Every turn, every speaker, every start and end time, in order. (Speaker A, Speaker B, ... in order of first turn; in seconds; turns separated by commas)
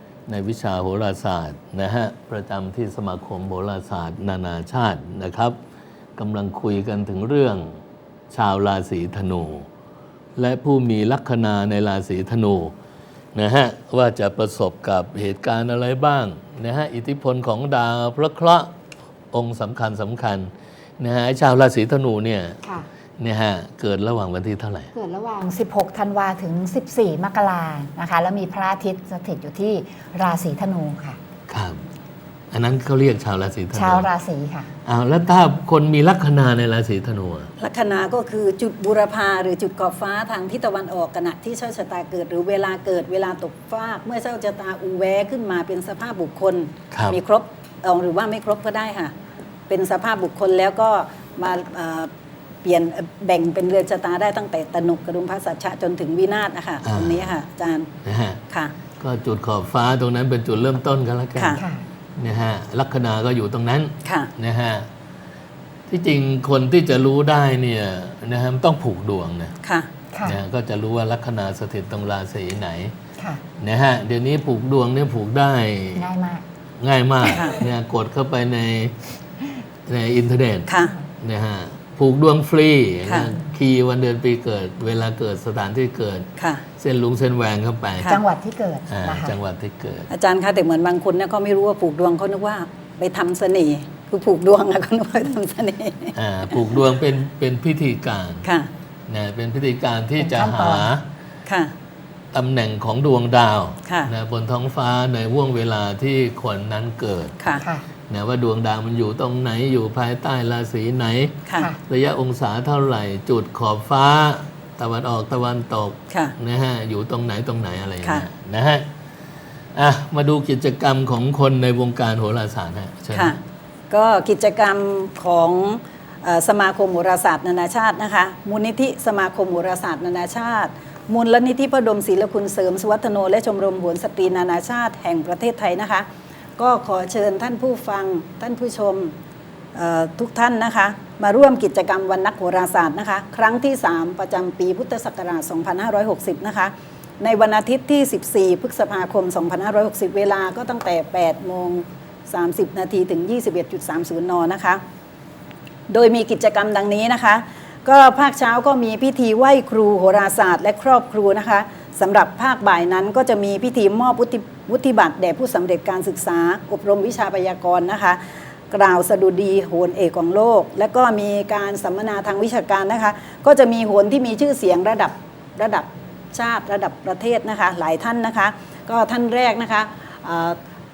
Speaker A: 0.3-5.6, Speaker A: 6.2-9.7, Speaker A: 10.4-12.7, Speaker A: 13.3-18.7, Speaker A: 19.3-22.6, Speaker B: 22.6-22.9, Speaker A: 23.2-24.9, Speaker B: 24.9-31.2, Speaker A: 31.5-31.8, Speaker A: 32.5-34.1, Speaker B: 33.7-34.7, Speaker A: 34.9-37.5, Speaker C: 37.6-49.1, Speaker A: 46.9-47.2, Speaker C: 49.7-52.1, Speaker C: 52.6-57.9, Speaker A: 56.8-57.3, Speaker A: 58.0-58.4, Speaker A: 59.0-61.6, Speaker C: 61.4-61.6, Speaker B: 61.6-61.8, Speaker A: 62.2-64.9, Speaker C: 64.0-64.3, Speaker A: 65.9-69.5, Speaker C: 69.6-69.9, Speaker B: 70.1-70.4, Speaker A: 70.2-72.9, Speaker B: 73.2-73.4, Speaker A: 73.6-76.1, Speaker B: 76.0-76.5, Speaker A: 76.8-79.1, Speaker C: 77.3-77.6, Speaker A: 79.9-88.2, Speaker C: 80.7-80.9, Speaker C: 83.1-83.3, Speaker C: 86.4-86.6, Speaker B: 88.0-89.4, Speaker A: 88.9-90.1, Speaker C: 90.1-96.2, Speaker A: 96.1-98.5, Speaker C: 98.4-98.7, Speaker A: 99.1-101.0, Speaker B: 100.2-100.9, Speaker C: 101.5-101.7, Speaker A: 102.3-107.4, Speaker B: 107.6-107.9, Speaker A: 108.1-118.9, Speaker C: 118.0-118.3, Speaker A: 119.8-123.4, Speaker C: 123.1-123.4, Speaker C: 123.9-136.1, Speaker C: 136.6-139.1, Speaker C: 139.8-154.8, Speaker C: 155.9-180.6